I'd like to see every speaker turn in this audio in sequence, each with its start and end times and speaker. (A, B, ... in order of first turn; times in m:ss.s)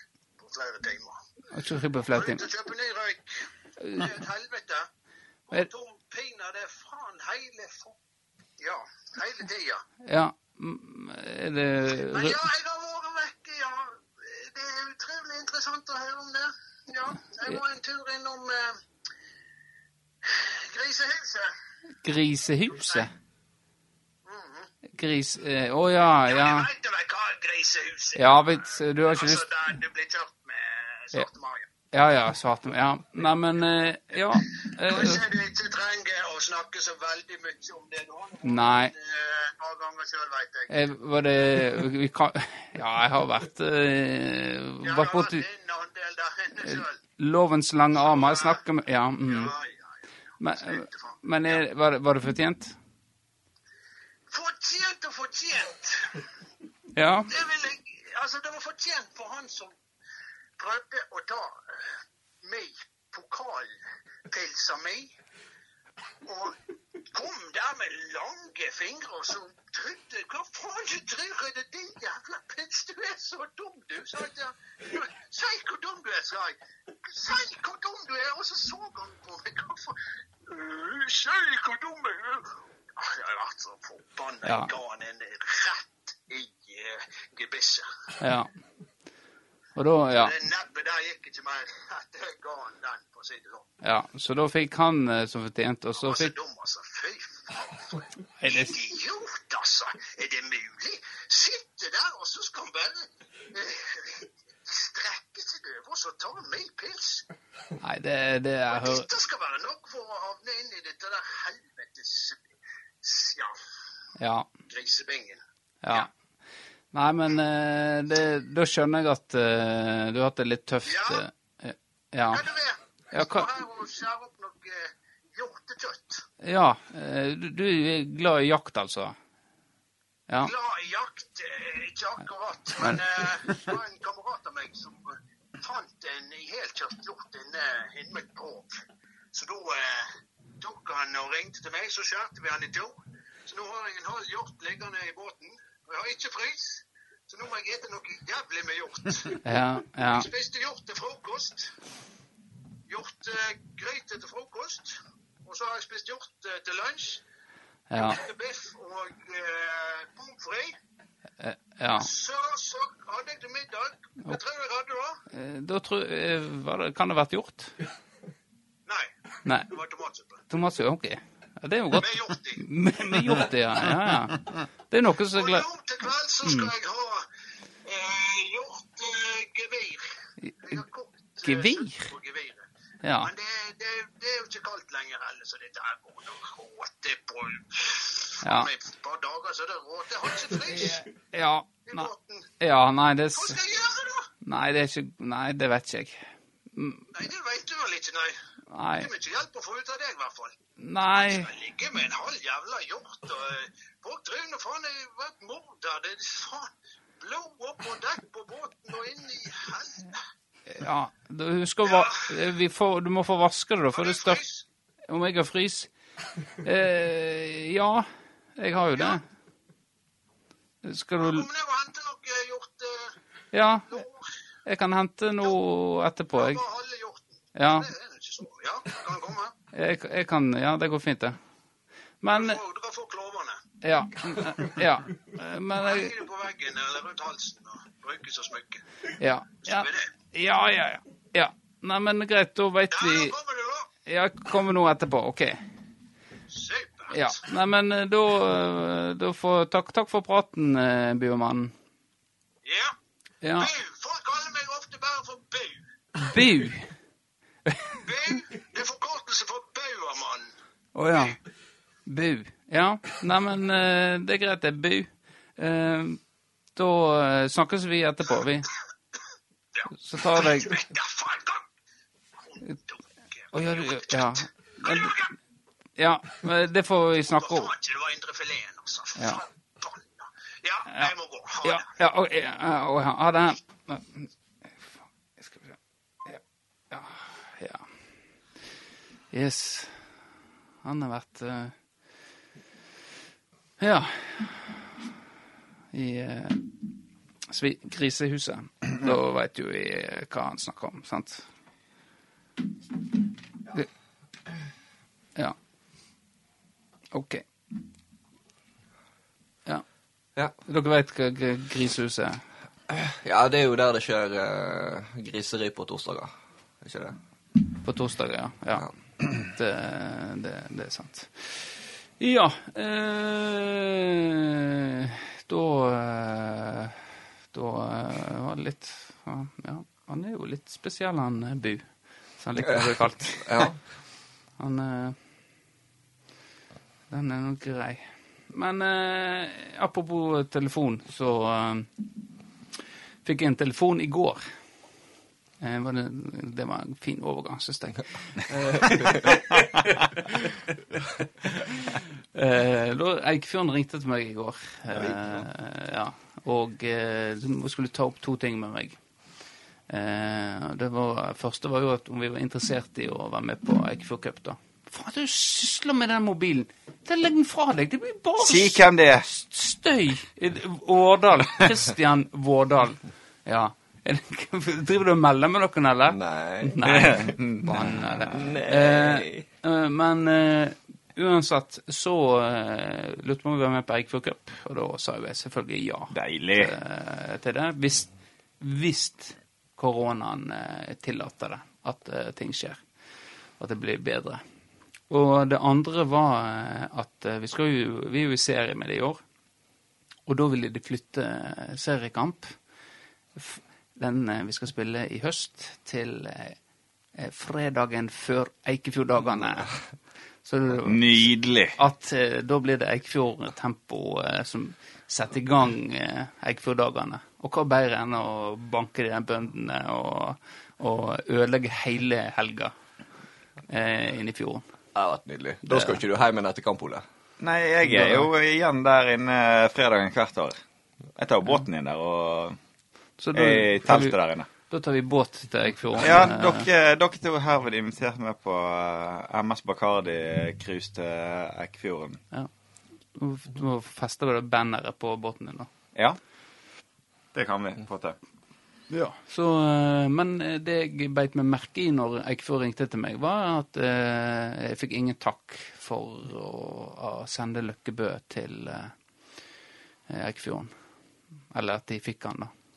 0:00.4-0:01.2 A
0:01.5-0:02.4 B
0:02.1-0:04.9 A
0:03.8-0:04.1 B
0:05.5-0:08.0 A
0:08.6-0:09.8 A
0:10.0-0:12.4 B
0:12.1-0:18.8 A
0:20.2-0:21.5 A
0:22.0-0:23.1 B
0:22.8-0:23.1 A
0:24.2-0:24.7 A
0:24.9-0:26.7 B
0:26.3-0:31.7 A
0:28.1-0:29.5 B
0:31.9-0:35.2 B
0:34.8-0:40.8 A
0:38.4-0:38.9 B
0:40.7-0:45.4 B
0:44.8-0:47.0 A
0:46.6-0:49.5 B
0:47.9-0:48.6 A
0:49.2-0:49.9 A
0:50.4-0:52.8 B
0:50.6-0:51.6 A
0:54.3-0:56.2 A
0:56.9-0:57.3 B
0:57.3-0:59.7 A
1:00.6-1:01.9 A
1:02.4-1:03.7 A
1:04.3-1:05.1 A
1:06.2-1:06.6 A
1:07.1-1:28.1 A
1:24.4-1:24.7 B
1:28.2-1:28.5 B
1:29.8-1:30.3 B
1:30.1-1:33.7 A
1:33.8-1:36.3 B
1:36.0-1:47.2 A
1:38.4-1:38.8 B
1:47.8-1:49.1 B
1:48.7-1:52.4 A
1:53.0-1:53.6 A
1:54.2-1:54.5 B
1:54.7-1:56.1 A
1:55.8-1:56.1 B
1:56.9-2:02.4 B
2:00.8-2:01.2 A
2:02.3-2:06.2 A
2:03.1-2:03.5 B
2:06.4-2:09.2 B
2:10.4-2:18.7 A
2:19.3-2:29.4 A
2:29.4-2:30.3 B
2:30.0-2:31.7 A
2:32.9-2:37.2 A
2:37.9-2:38.2 B
2:37.9-2:40.8 A
2:41.4-2:42.1 B
2:42.0-2:45.2 A
2:45.3-2:47.8 B
2:48.8-2:49.1 A
2:49.4-2:49.7 B
2:49.7-2:50.4 A
2:50.5-2:55.6 B
2:52.0-2:52.6 A
2:55.3-2:57.2 A
2:56.4-2:56.7 B
2:57.8-3:00.0 A
3:00.6-3:02.7 A
3:01.4-3:02.1 B
3:03.0-3:03.3 B
3:03.2-3:11.0 A
3:08.4-3:08.7 B
3:10.6-3:13.6 B
3:11.8-3:12.5 A
3:13.3-3:14.3 A
3:14.4-3:17.1 B
3:17.1-3:18.3 A
3:18.7-3:19.1 B
3:19.0-3:30.2 A
3:20.8-3:21.5 B
3:30.7-3:34.4 B
3:31.8-3:32.3 A
3:33.9-3:34.6 A
3:35.1-3:35.9 B
3:36.6-3:39.2 B
3:40.8-3:41.5 B
3:41.2-3:43.1 A
3:43.5-3:44.0 B
3:43.9-3:44.3 A
3:44.6-3:46.6 B
3:46.3-3:49.6 A
3:47.5-3:47.9 B
3:49.7-3:51.4 B
3:52.2-3:52.6 B
3:52.3-3:53.6 A
3:53.8-3:56.1 B
3:55.8-3:58.8 A
3:59.2-4:03.3 B
3:59.6-4:00.1 A
4:02.9-4:03.9 A
4:04.0-4:05.6 B
4:06.5-4:07.3 A
4:07.1-4:11.7 B
4:12.6-4:12.9 A
4:13.4-4:13.7 B
4:13.6-4:15.8 A
4:16.2-4:16.9 B
4:17.6-4:18.0 B
4:18.0-4:20.5 A
4:20.9-4:21.4 B
4:22.0-4:26.2 B
4:26.7-4:28.7 B
4:29.7-4:31.6 A
4:29.9-4:30.9 B
4:32.4-4:35.3 A
4:33.5-4:35.2 B
4:36.0-4:37.7 B
4:37.3-4:41.9 A
4:41.6-4:44.3 B
4:45.4-4:47.9 B
4:49.3-4:50.0 B
4:50.8-4:51.7 B
4:53.8-4:54.8 B
4:55.9-4:56.8 B
4:57.5-5:01.5 B
5:07.1-5:07.4 B
5:10.6-5:12.4 B
5:12.9-5:16.3 C
5:16.8-5:17.2 C
5:17.8-5:27.0 B
5:27.5-5:33.6 B
5:33.4-5:33.8 C
5:34.6-5:35.2 B
5:37.1-5:41.9 B
5:43.2-5:44.4 B
5:45.6-5:49.3 B
5:48.8-5:49.4 C
5:51.6-5:59.0 B
5:59.9-6:32.8 B
6:08.4-6:09.3 D
6:16.1-6:16.8 C
6:16.8-6:18.2 D
6:18.3-6:19.4 C
6:26.1-6:26.7 D
6:33.6-6:34.4 B
6:35.1-6:39.2 B
6:40.2-6:42.5 B
6:43.4-6:46.6 B
6:47.1-6:49.8 B
6:50.4-6:51.2 B
6:50.8-6:51.8 D
6:51.8-7:02.7 B
7:03.7-7:04.6 B
7:04.9-7:07.0 C
7:05.6-7:06.0 B
7:07.4-7:10.6 D
7:07.8-7:08.3 B
7:11.2-7:12.6 D
7:13.2-7:14.1 B
7:13.3-7:14.5 D
7:14.7-7:16.7 B
7:16.0-7:22.2 D
7:23.1-7:25.7 B
7:27.3-7:28.2 D
7:28.9-7:38.9 B
7:40.1-7:40.7 B
7:41.5-7:42.5 B